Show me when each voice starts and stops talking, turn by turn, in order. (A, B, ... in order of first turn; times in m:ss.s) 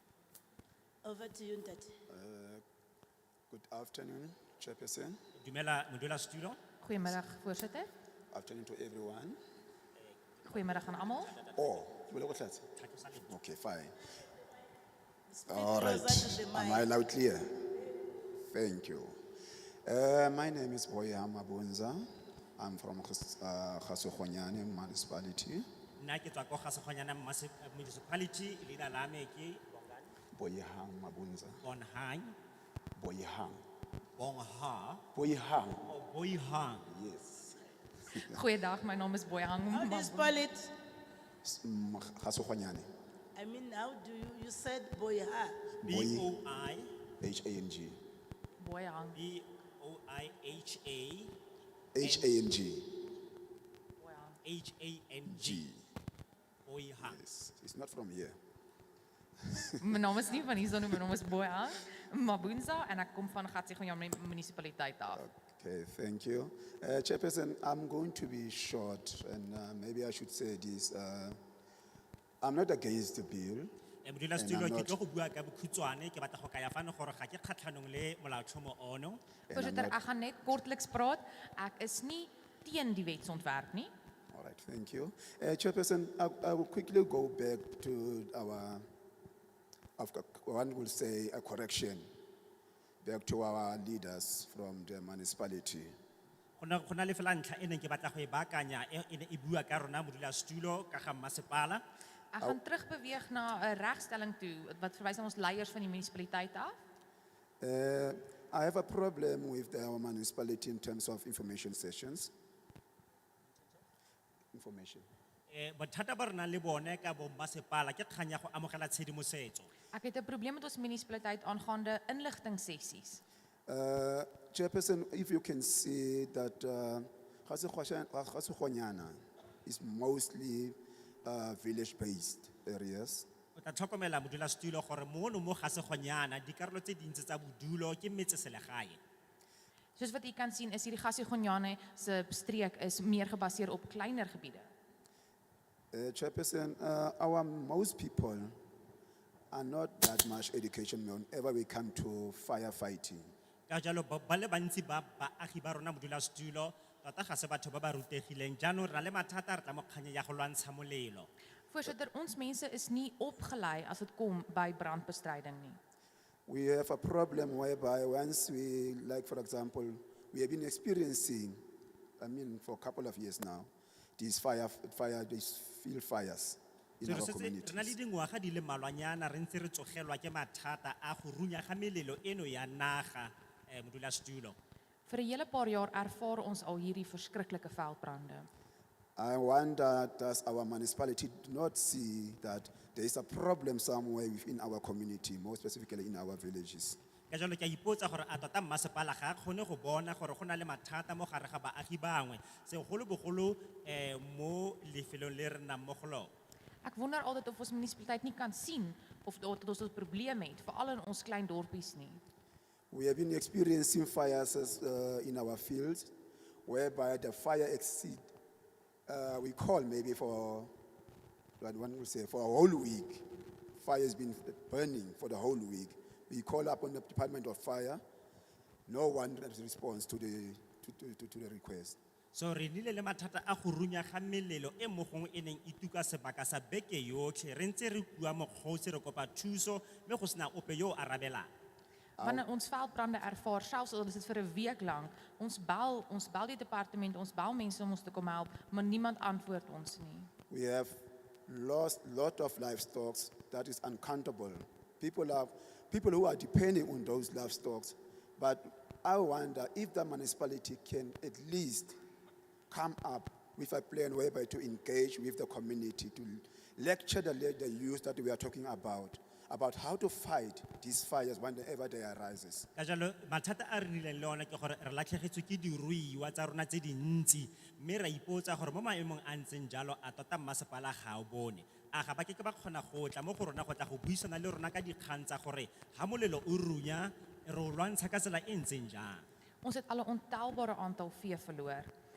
0:01.0-0:01.9 A
0:02.1-0:02.6 B
0:03.5-0:05.2 B
0:05.4-0:06.6 C
0:06.8-0:07.9 D
0:08.3-0:09.4 B
0:10.4-0:11.8 C
0:10.4-0:11.4 D
0:11.5-0:12.7 B
0:12.8-0:13.4 C
0:13.2-0:14.0 B
0:15.3-0:16.9 A
0:15.5-0:17.7 B
0:18.4-0:19.2 B
0:19.8-0:22.0 B
0:22.6-0:25.7 B
0:26.0-0:30.1 C
0:30.3-0:31.6 B
0:31.6-0:32.4 C
0:33.0-0:33.6 B
0:34.2-0:35.0 C
0:35.1-0:35.9 B
0:35.8-0:36.9 C
0:36.8-0:38.4 B
0:38.1-0:40.4 D
0:39.7-0:40.7 A
0:41.4-0:42.9 B
0:43.4-0:45.6 A
0:45.8-0:46.9 C
0:45.8-0:46.3 B
0:47.2-0:48.0 B
0:48.6-0:49.2 D
0:49.2-0:51.3 C
0:51.9-0:53.0 B
0:52.0-0:52.3 C
0:54.0-0:54.4 D
0:54.4-0:55.6 C
0:55.3-0:55.9 B
0:56.6-0:57.2 C
0:57.0-0:58.4 B
0:59.4-1:00.0 B
0:59.8-1:05.2 D
1:05.1-1:11.4 B
1:12.4-1:13.7 B
1:14.0-1:19.2 C
1:14.4-1:15.0 B
1:19.5-1:20.0 B
1:19.5-1:23.9 D
1:24.3-1:28.9 B
1:30.0-1:32.1 B
1:33.0-1:36.0 B
1:36.6-1:41.8 C
1:42.3-1:46.8 D
1:47.6-1:52.3 B
1:54.5-1:55.1 B
1:55.5-1:59.7 C
1:59.9-2:03.2 D
2:03.7-2:13.3 B
2:13.6-2:19.0 C
2:20.0-2:24.7 D
2:25.9-2:28.6 B
2:29.5-2:33.3 B
2:33.7-2:41.3 C
2:41.7-2:45.8 D
2:46.5-2:51.6 B
2:52.2-2:58.0 B
2:57.0-3:04.6 C
3:05.1-3:08.5 D
3:09.2-3:17.0 B
3:17.3-3:26.3 C
3:26.8-3:32.2 D
3:32.9-3:36.1 B
3:36.6-3:38.3 B
3:39.1-3:40.7 B
3:41.6-3:48.0 B
3:48.9-3:52.0 B
3:52.3-4:01.5 C
4:02.2-4:02.5 B
4:02.2-4:10.3 D
4:10.5-4:22.0 B
4:22.7-4:32.7 B
4:32.8-4:49.2 C
4:49.6-4:51.9 D